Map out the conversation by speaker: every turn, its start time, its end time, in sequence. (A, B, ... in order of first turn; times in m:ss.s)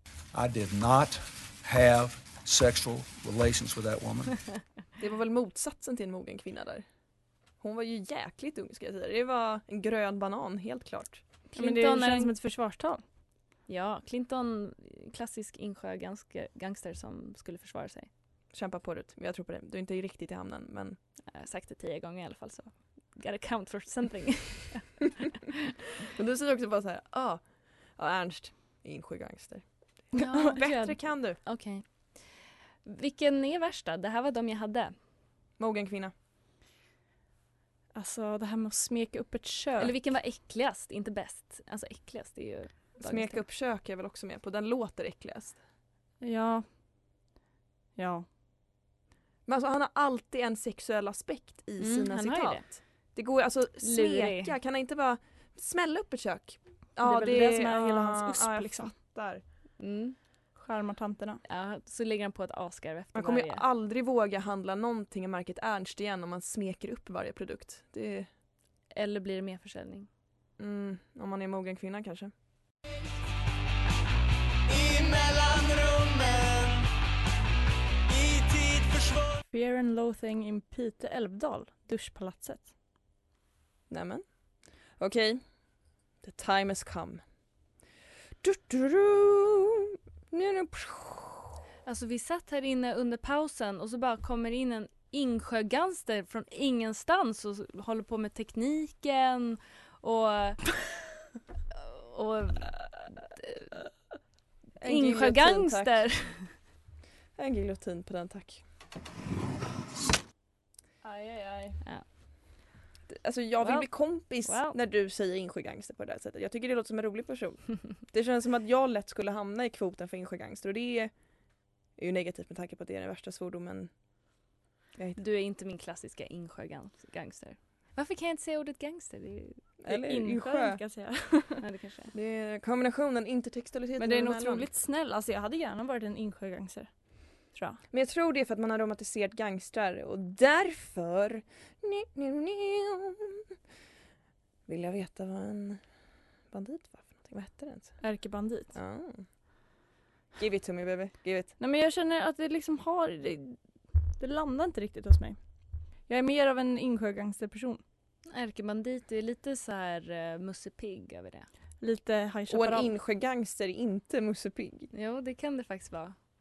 0:00.3-0:04.4 A
0:05.0-0:06.8 B
0:07.6-0:11.2 B
0:11.5-0:12.3 C
0:11.6-0:13.0 D
0:13.7-0:18.1 C
0:18.5-0:21.0 B
0:21.3-0:25.6 C
0:26.1-0:27.4 B
0:28.0-0:29.6 B
0:30.1-0:31.8 C
0:30.5-0:31.4 B
0:32.8-0:34.9 C
0:35.6-0:36.1 B
0:38.0-0:39.9 D
0:39.8-0:43.4 C
0:43.0-0:45.6 B
0:46.2-0:46.6 D
0:48.0-0:48.2 D
0:49.5-0:59.4 B
0:51.8-0:52.6 C
0:53.8-0:54.5 C
0:57.0-0:58.9 D
0:59.8-1:00.2 C
1:00.6-1:01.4 D
1:01.4-1:03.6 C
1:03.1-1:08.3 B
1:08.9-1:10.1 C
1:10.6-1:12.3 B
1:14.7-1:16.8 E
1:18.1-1:19.4 E
1:19.5-1:22.7 D
1:23.9-1:24.2 B
1:25.0-1:25.4 B
1:26.2-1:27.2 B
1:28.4-1:31.6 B
1:31.8-1:40.7 C
1:41.7-1:42.7 C
1:44.8-1:46.1 B
1:44.8-1:46.5 C
1:47.4-1:48.6 B
1:51.0-1:51.7 D
1:53.1-2:01.1 B
1:53.6-1:53.9 C
1:54.4-1:54.8 C
2:02.0-2:03.9 B
2:05.2-2:09.6 C
2:09.8-2:10.8 B
2:09.9-2:11.6 D
2:11.6-2:12.1 C
2:12.1-2:14.7 B
2:14.0-2:16.9 D
2:17.9-2:23.5 B
2:24.7-2:25.8 B
2:26.5-2:28.0 B
2:28.0-2:28.7 D
2:28.7-2:29.2 B
2:30.4-2:31.5 B
2:31.6-2:33.6 D
2:34.2-2:35.4 D
2:36.1-2:37.8 D
2:38.3-2:41.5 C
2:41.8-2:42.9 D
2:42.5-2:44.9 B
2:44.9-2:46.1 C